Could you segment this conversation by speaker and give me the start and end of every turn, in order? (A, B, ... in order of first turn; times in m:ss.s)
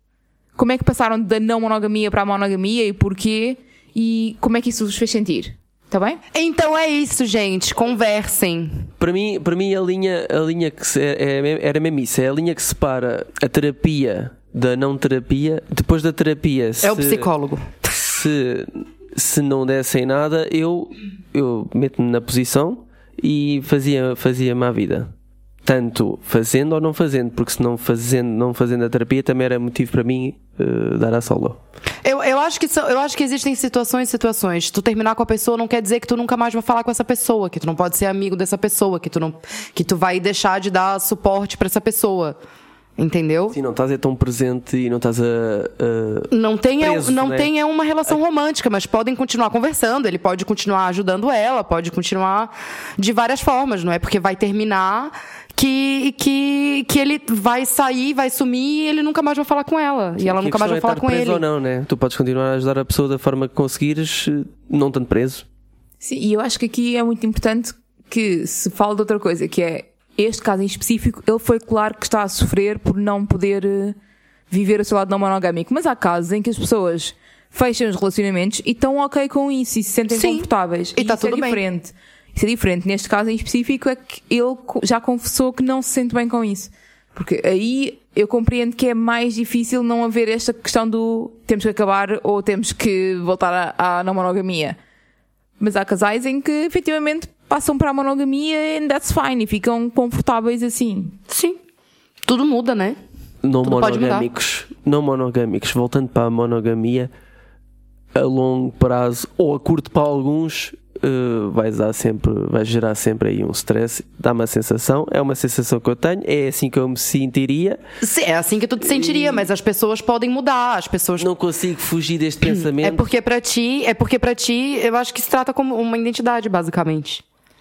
0:00.6-0:06.2 A
0:06.3-0:08.9 B
0:09.0-0:17.3 C
0:16.8-0:17.8 B
0:18.0-0:25.1 C
0:25.6-0:31.6 C
0:32.0-0:42.4 B
0:43.0-0:43.6 B
0:43.5-0:47.5 C
0:46.3-1:01.4 B
1:00.2-1:05.4 C
1:06.0-1:14.0 A
1:14.5-1:34.8 A
1:20.1-1:21.6 B
1:35.6-1:41.2 A
1:41.3-1:41.6 B
1:42.3-1:43.0 B
1:43.4-1:47.1 C
1:43.6-1:44.3 B
1:48.1-1:57.8 C
1:58.0-2:01.3 B
1:58.8-1:59.5 C
2:01.2-2:03.1 C
2:02.7-2:07.2 B